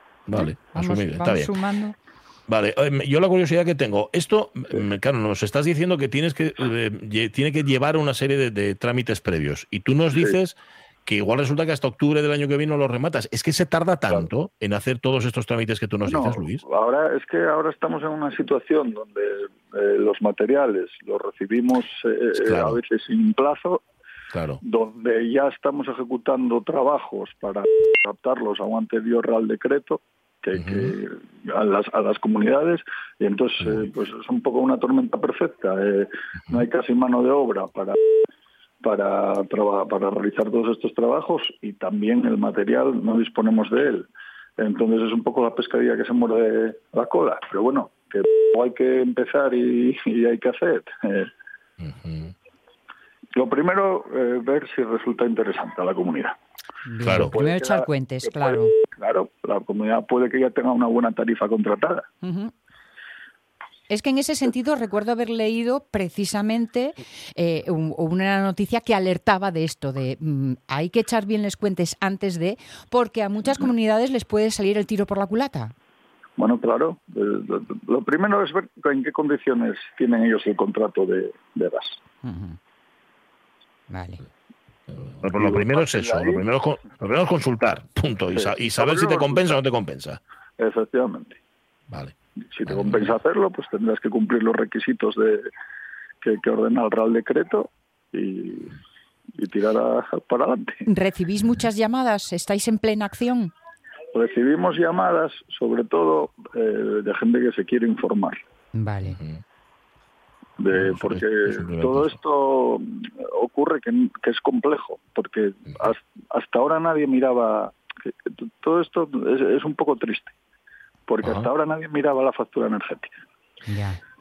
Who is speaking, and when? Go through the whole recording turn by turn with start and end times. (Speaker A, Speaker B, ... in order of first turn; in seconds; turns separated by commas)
Speaker A: 0.3-1.5, Speaker B: 0.3-1.9, Speaker A: 2.5-16.6, Speaker C: 16.1-23.8, Speaker A: 22.3-22.8, Speaker A: 24.3-24.6, Speaker C: 24.6-38.0, Speaker A: 30.6-30.9, Speaker A: 33.6-33.9, Speaker C: 38.8-44.1, Speaker C: 44.6-51.3, Speaker A: 51.8-52.3, Speaker C: 53.3-56.4, Speaker B: 56.9-58.7, Speaker A: 57.0-57.3, Speaker C: 57.0-62.1, Speaker B: 62.2-62.5, Speaker B: 63.9-75.7, Speaker C: 76.4-82.0, Speaker B: 82.2-82.6, Speaker B: 83.9-84.2, Speaker A: 85.0-90.2, Speaker C: 85.3-86.4, Speaker C: 88.3-89.5, Speaker C: 90.6-91.4, Speaker C: 92.5-95.5, Speaker A: 92.7-93.1, Speaker C: 96.2-98.8, Speaker C: 99.4-100.8, Speaker B: 100.9-103.5, Speaker C: 104.1-108.4, Speaker B: 108.8-109.2, Speaker A: 109.0-109.4, Speaker C: 110.6-120.3, Speaker A: 110.7-112.2, Speaker C: 121.1-123.1, Speaker A: 121.2-121.5, Speaker B: 123.7-124.0